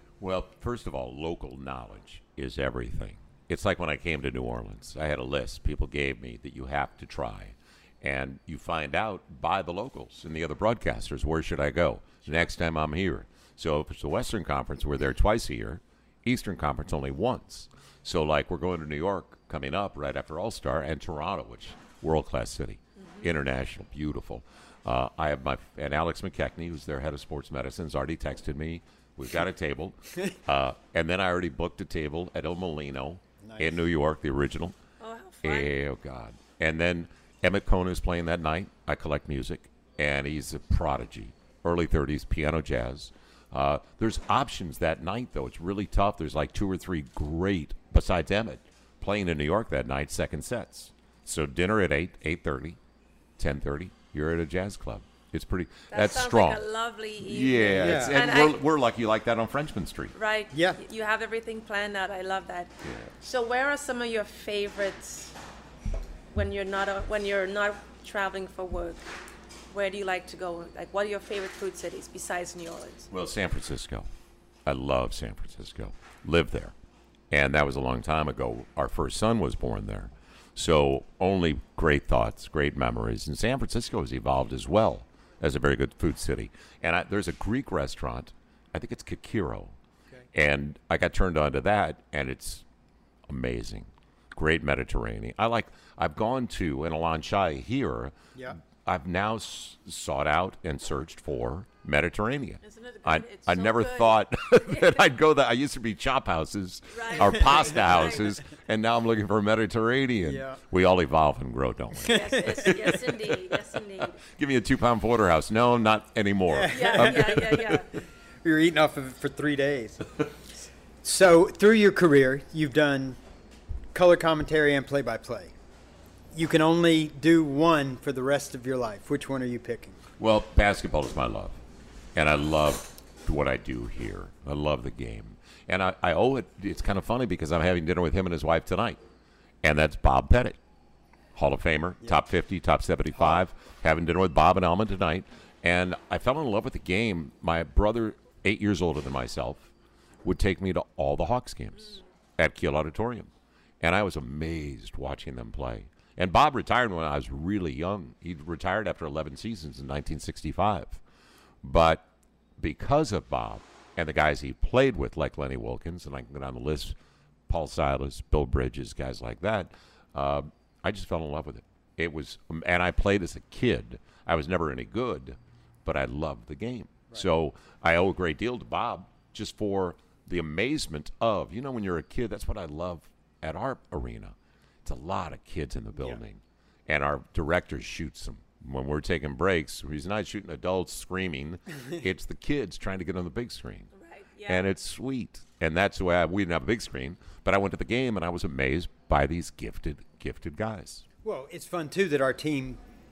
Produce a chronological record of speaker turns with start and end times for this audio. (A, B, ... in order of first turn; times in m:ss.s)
0:00.2-0:34.8 A
0:33.4-0:33.8 B
0:35.0-0:35.7 C
0:35.4-0:52.8 A
0:53.4-0:56.6 A
0:55.9-0:58.6 C
0:57.2-1:00.2 A
0:57.7-0:58.2 B
1:00.1-1:05.4 C
1:00.5-1:00.8 B
1:02.8-1:03.1 A
1:06.3-1:09.1 C
1:09.7-1:13.1 C
1:13.1-1:14.1 A
1:14.6-1:16.7 A
1:17.3-1:29.7 A
1:30.3-1:32.6 A
1:33.3-1:57.8 A
1:42.6-1:45.0 C
1:46.9-1:48.3 C
1:50.2-1:50.6 B
1:52.0-1:53.0 B
1:52.0-1:54.2 C
1:56.5-1:57.8 B
1:56.7-1:57.9 C
1:58.4-2:00.0 B
2:01.0-2:03.2 B
2:03.9-2:05.5 B
2:06.3-2:10.0 B
2:10.2-2:11.6 A
2:12.1-2:19.0 A
2:19.6-2:20.6 A
2:21.3-2:29.7 A
2:30.2-2:33.3 A
2:33.8-2:41.0 A
2:41.6-2:42.0 A
2:42.6-2:47.0 A
2:47.5-3:13.9 A
3:13.9-3:14.6 C
3:14.4-3:21.0 A
3:21.2-3:22.8 B